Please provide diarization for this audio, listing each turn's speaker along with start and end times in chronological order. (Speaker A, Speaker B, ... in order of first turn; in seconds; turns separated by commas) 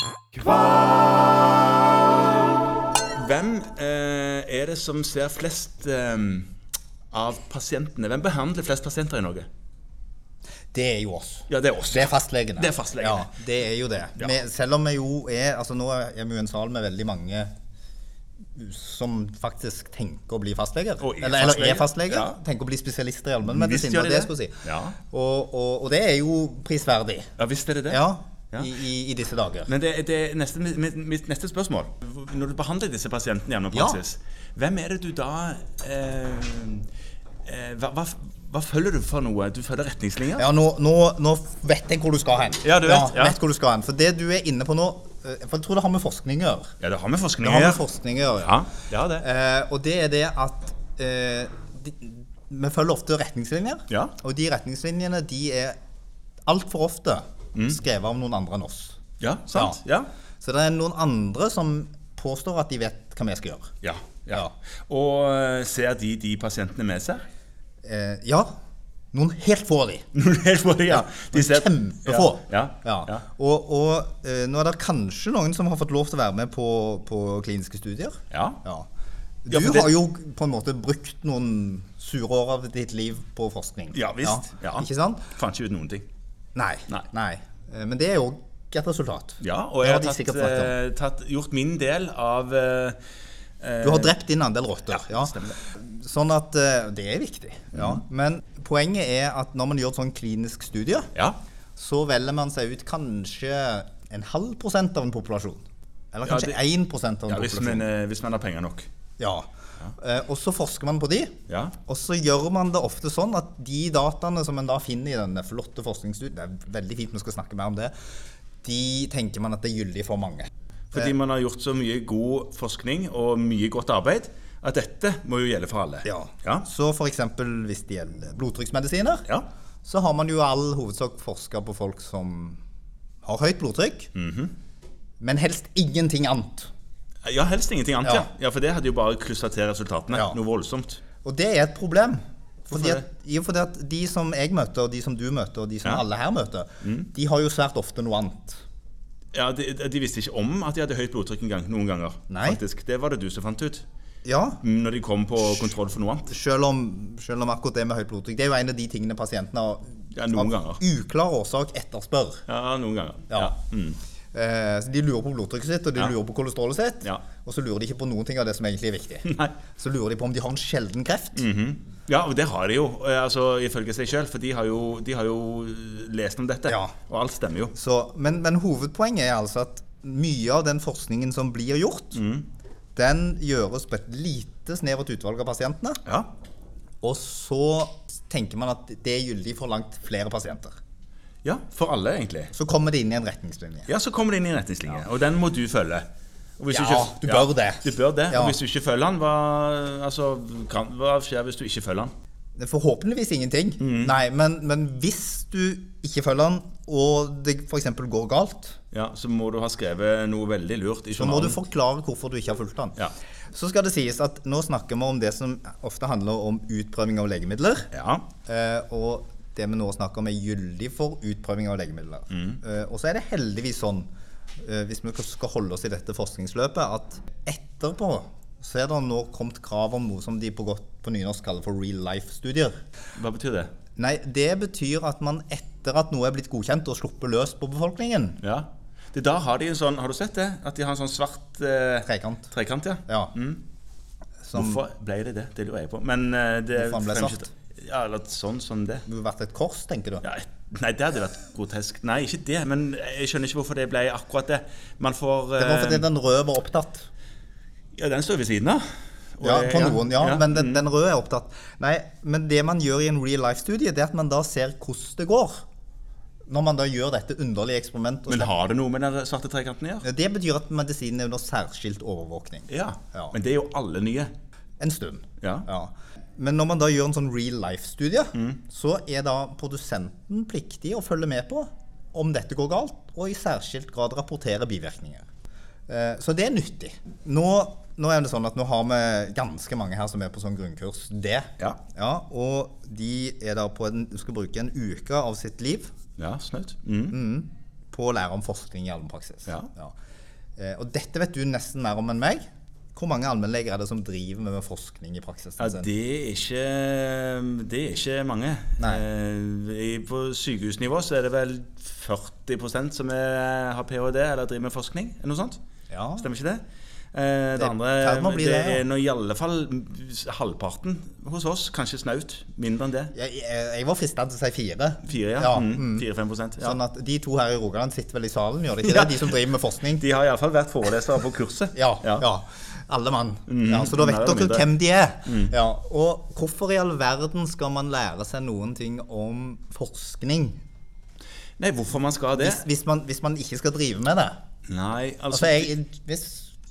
Speaker A: 0.3-0.9, Speaker A: 3.1-6.5, Speaker A: 7.1-9.5, Speaker B: 10.7-17.5, Speaker A: 11.5-13.3, Speaker B: 18.5-27.3, Speaker A: 21.0-22.4, Speaker A: 23.4-25.0, Speaker A: 27.4-28.0, Speaker B: 27.9-29.7, Speaker A: 29.7-36.9, Speaker B: 33.7-34.0, Speaker A: 37.4-40.5, Speaker B: 40.4-46.7, Speaker A: 42.6-43.4, Speaker A: 46.8-47.8, Speaker B: 47.4-48.6, Speaker A: 48.4-49.2, Speaker B: 49.2-55.8, Speaker A: 53.9-54.1, Speaker B: 56.5-59.0, Speaker A: 59.2-60.1, Speaker B: 59.5-59.8, Speaker B: 60.4-63.7, Speaker A: 63.8-67.2, Speaker B: 67.8-68.5, Speaker B: 69.1-70.0, Speaker A: 70.1-73.2, Speaker B: 70.9-78.9, Speaker A: 78.3-78.6, Speaker B: 79.4-85.3, Speaker A: 79.5-80.0, Speaker A: 83.9-86.0, Speaker B: 86.5-90.7, Speaker A: 89.4-93.0, Speaker A: 93.6-94.1, Speaker B: 93.8-101.1, Speaker A: 94.9-95.6, Speaker A: 97.7-98.0, Speaker B: 101.8-107.9, Speaker A: 106.2-106.6, Speaker A: 107.3-108.9, Speaker B: 109.2-117.9, Speaker A: 111.5-111.8, Speaker B: 118.6-121.1, Speaker A: 120.9-126.7, Speaker B: 126.0-129.3, Speaker B: 129.8-132.6, Speaker B: 133.2-134.1, Speaker A: 134.1-134.5, Speaker B: 135.2-136.7, Speaker A: 137.2-141.0, Speaker B: 141.2-148.6, Speaker A: 142.7-143.0, Speaker A: 146.8-147.1, Speaker A: 149.3-153.8, Speaker B: 152.3-152.6, Speaker B: 154.2-154.6, Speaker A: 154.6-156.3, Speaker B: 156.3-162.4, Speaker A: 160.1-160.8, Speaker A: 162.5-164.0, Speaker B: 164.3-171.4, Speaker A: 169.2-169.6, Speaker A: 171.3-177.7, Speaker B: 176.7-176.9, Speaker B: 177.7-182.2, Speaker A: 182.1-182.5, Speaker B: 182.9-186.0, Speaker A: 186.0-186.3, Speaker B: 187.0-190.8, Speaker A: 191.4-192.5, Speaker B: 192.5-193.9, Speaker A: 193.9-196.1, Speaker A: 196.6-202.1, Speaker B: 196.7-198.6, Speaker B: 202.6-208.8, Speaker A: 203.8-204.2, Speaker A: 208.9-211.6, Speaker B: 211.2-213.0, Speaker B: 213.5-217.9, Speaker A: 217.9-218.3, Speaker B: 218.4-224.1, Speaker A: 222.3-222.6, Speaker B: 224.6-232.8, Speaker A: 233.2-233.7, Speaker B: 233.9-238.4, Speaker A: 238.4-243.6, Speaker B: 242.1-242.5, Speaker B: 243.1-243.3, Speaker B: 244.4-244.8, Speaker A: 244.5-249.1, Speaker B: 246.7-247.5, Speaker B: 249.1-250.2, Speaker A: 250.2-256.1, Speaker B: 255.6-257.1, Speaker A: 258.0-260.8, Speaker B: 259.4-265.6, Speaker B: 266.5-268.5, Speaker A: 268.3-270.1, Speaker B: 270.0-273.3, Speaker A: 272.7-274.3, Speaker B: 274.8-285.3, Speaker A: 275.4-275.7, Speaker A: 278.3-278.6, Speaker B: 285.9-295.9, Speaker A: 296.2-297.2, Speaker B: 297.1-299.9, Speaker B: 300.6-305.9, Speaker A: 305.6-315.6, Speaker B: 315.9-316.2, Speaker A: 316.2-323.1, Speaker B: 317.6-318.8, Speaker B: 323.1-326.1, Speaker A: 325.0-326.8, Speaker B: 326.6-330.0, Speaker A: 328.8-329.4, Speaker A: 329.9-332.2, Speaker B: 331.7-340.6, Speaker A: 333.5-334.7, Speaker A: 335.2-335.5, Speaker A: 341.6-342.6, Speaker B: 342.4-344.4, Speaker A: 344.7-345.8, Speaker B: 345.3-346.6